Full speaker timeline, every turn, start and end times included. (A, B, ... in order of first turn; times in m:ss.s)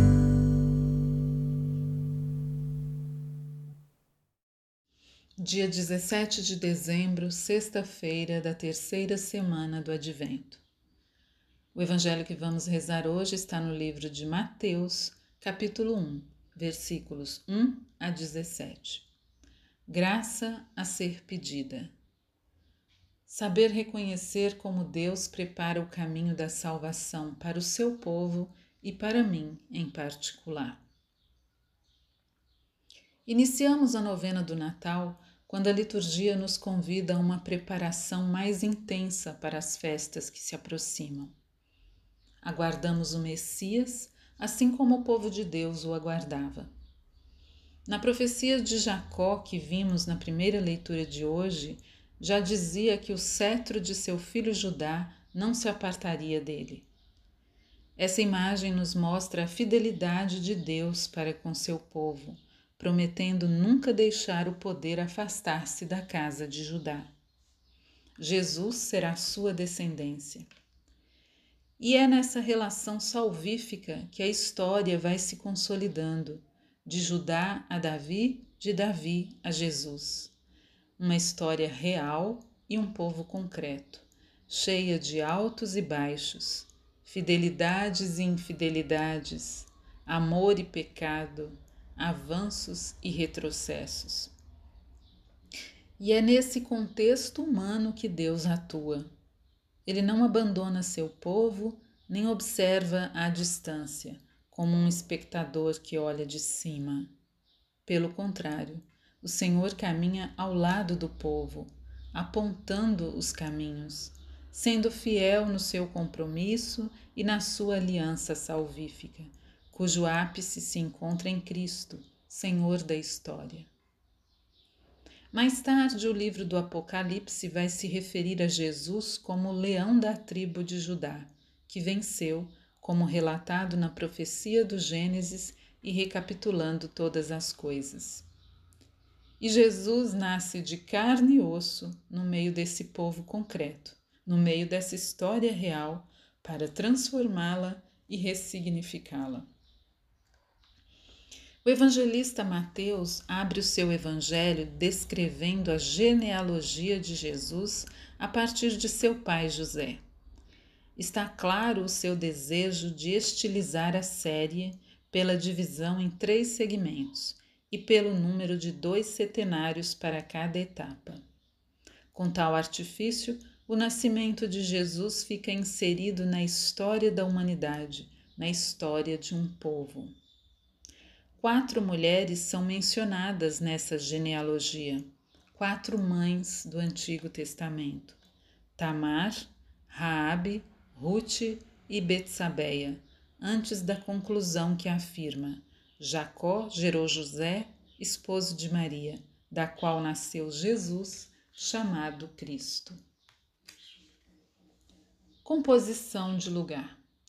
0:05.4-0:10.6 A
0:11.7-0:19.1 A
0:19.9-0:21.9 A
0:23.3-0:30.8 A
0:33.2-0:41.3 A
0:42.4-0:46.7 A
0:47.8-0:56.9 A
0:58.0-1:07.1 A
1:08.2-1:10.5 A
1:11.8-1:20.3 A
1:21.0-1:34.3 A
1:36.0-1:39.1 A
1:39.8-1:47.1 A
1:47.8-2:03.7 A
2:05.3-2:18.3 A
2:19.4-2:29.4 A
2:31.6-2:40.0 A
2:41.0-2:51.2 A
2:52.1-3:00.1 A
3:01.4-3:08.2 A
3:08.8-3:23.0 A
3:25.4-3:27.0 A